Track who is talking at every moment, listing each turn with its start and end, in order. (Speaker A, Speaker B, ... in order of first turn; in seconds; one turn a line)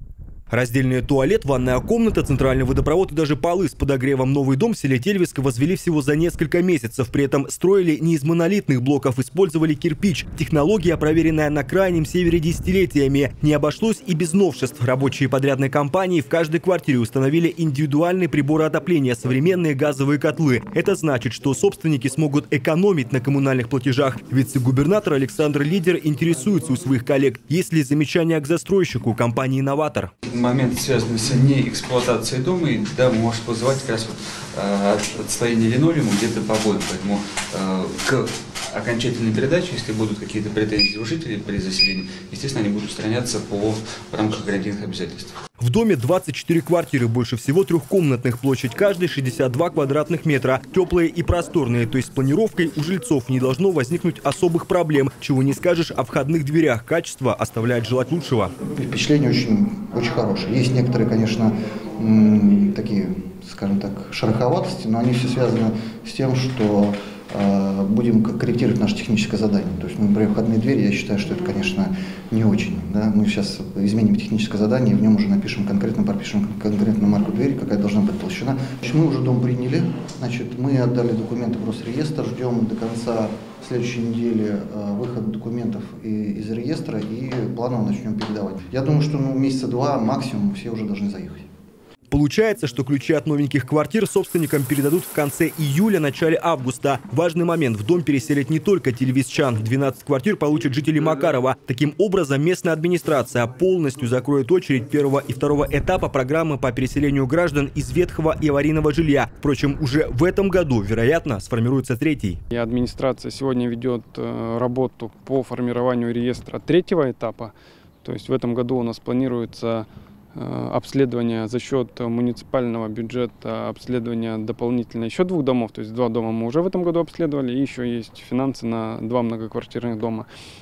Speaker A: 0.5-30.1
Speaker B: 30.3-45.3
Speaker A: 45.6-58.5
Speaker C: 58.7-91.5
Speaker A: 92.1-112.4
Speaker D: 112.5-117.5
Speaker D: 118.0-130.3